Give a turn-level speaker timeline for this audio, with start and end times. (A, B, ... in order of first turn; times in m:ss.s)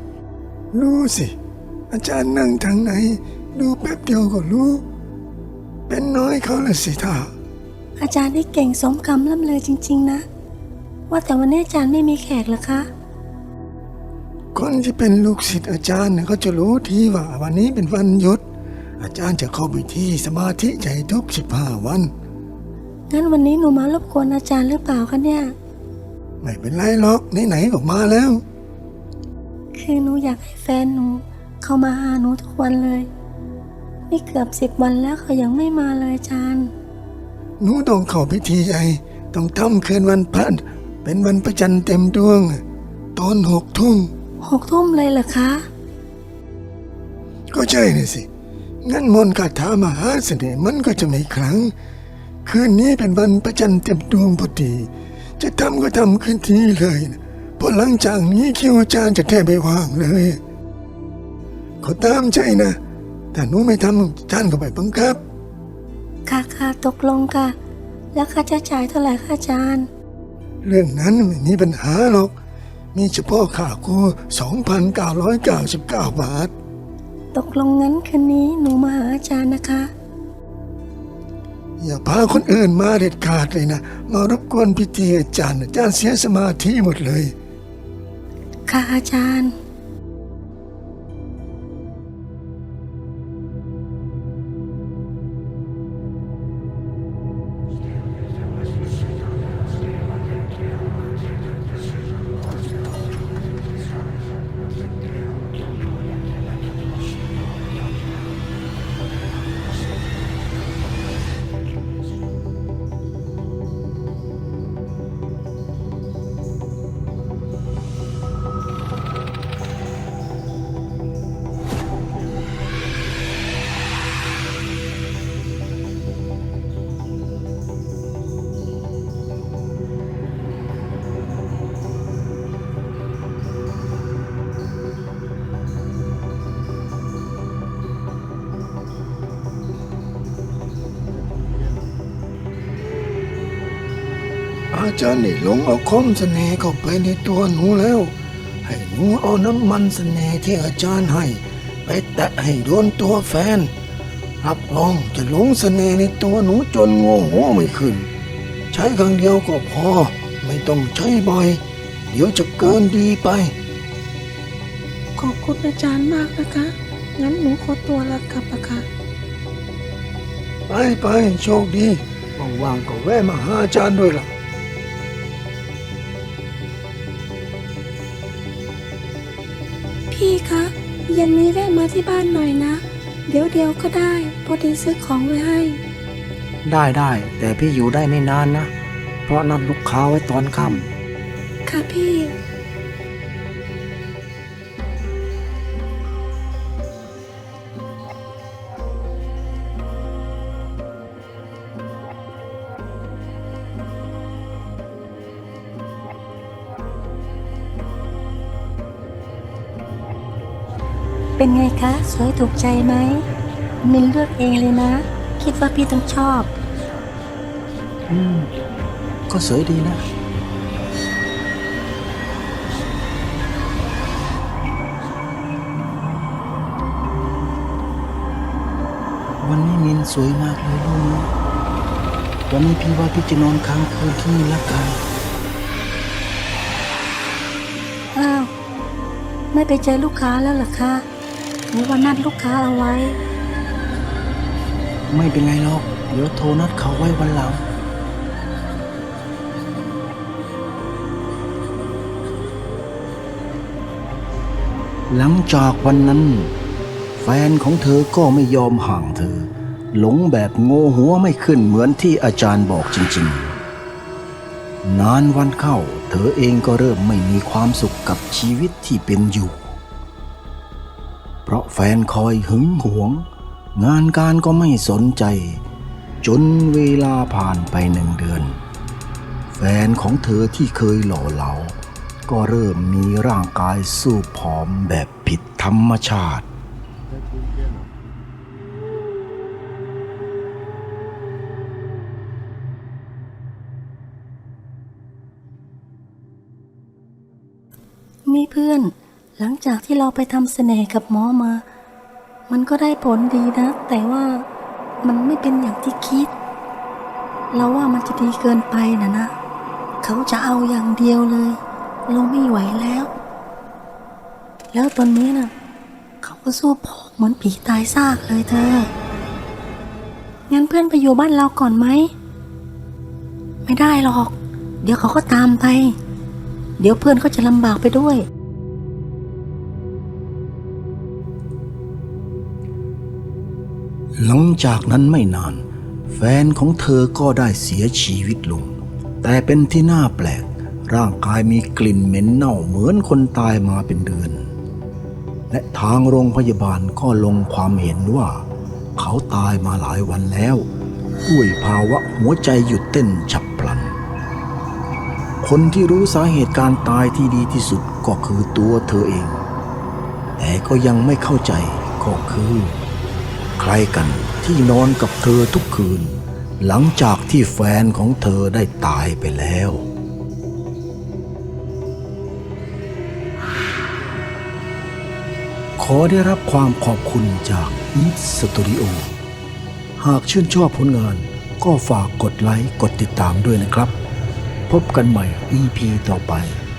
0:00.7-0:01.3 A
0:01.9-0:04.8 A
0:05.9-0:07.3 A
0:08.0-0:10.2 B
0:11.1-0:12.9 B
0:14.6-0:18.4 A
0:19.0-0:22.1 A
0:23.1-0:25.5 B
0:26.4-0:28.4 A
0:29.7-0:33.1 B
0:34.1-0:36.7 B
0:37.6-0:42.6 A
0:43.2-0:44.1 A
0:44.4-0:45.6 B
0:47.5-0:48.3 A
0:48.8-0:51.7 A
0:52.4-1:00.4 A
1:01.8-1:02.8 A
1:03.3-1:05.2 A
1:06.3-1:07.6 B
1:08.1-1:09.9 B
1:10.6-1:12.3 A
1:12.9-1:16.5 A
1:17.3-1:19.9 B
1:21.8-1:27.3 A
1:28.7-1:29.5 B
2:24.7-2:28.1 A
2:28.6-2:33.7 A
2:34.4-2:38.1 A
2:38.7-2:43.6 A
2:45.2-2:48.8 B
2:50.7-2:54.3 A
3:00.1-3:05.8 B
3:06.6-3:08.7 C
3:09.3-3:10.9 C
3:11.7-3:12.3 B
3:31.4-3:33.2 B
3:33.8-3:36.5 B
3:38.1-3:38.5 C
3:39.3-3:40.0 C
3:49.4-3:51.3 C
3:52.5-3:55.0 C
3:58.1-3:58.5 B
3:59.5-4:01.1 B
4:01.7-4:03.2 B
4:05.1-4:07.6 C
4:15.1-4:16.5 C
4:17.2-4:23.6 C
4:24.8-4:29.8 C
4:31.5-4:35.6 C
4:36.2-4:38.6 C
4:39.5-4:46.5 C
4:58.3-5:01.6 B
5:02.5-5:04.5 B
5:05.0-5:06.3 B
5:07.5-5:09.3 B
5:10.0-5:13.1 B
5:14.7-5:15.5 B
5:16.2-5:18.9 B
5:20.5-5:22.1 B
5:23.7-5:25.9 B
5:26.8-5:28.2 B
5:34.2-5:44.5 C
5:45.5-5:48.4 C
5:49.0-5:50.7 C
5:51.2-5:54.0 C
5:55.4-5:59.4 C
6:00.4-6:02.8 C
6:03.6-6:09.9 C
6:15.8-6:19.1 C
6:20.0-6:24.0 C
6:24.7-6:26.6 C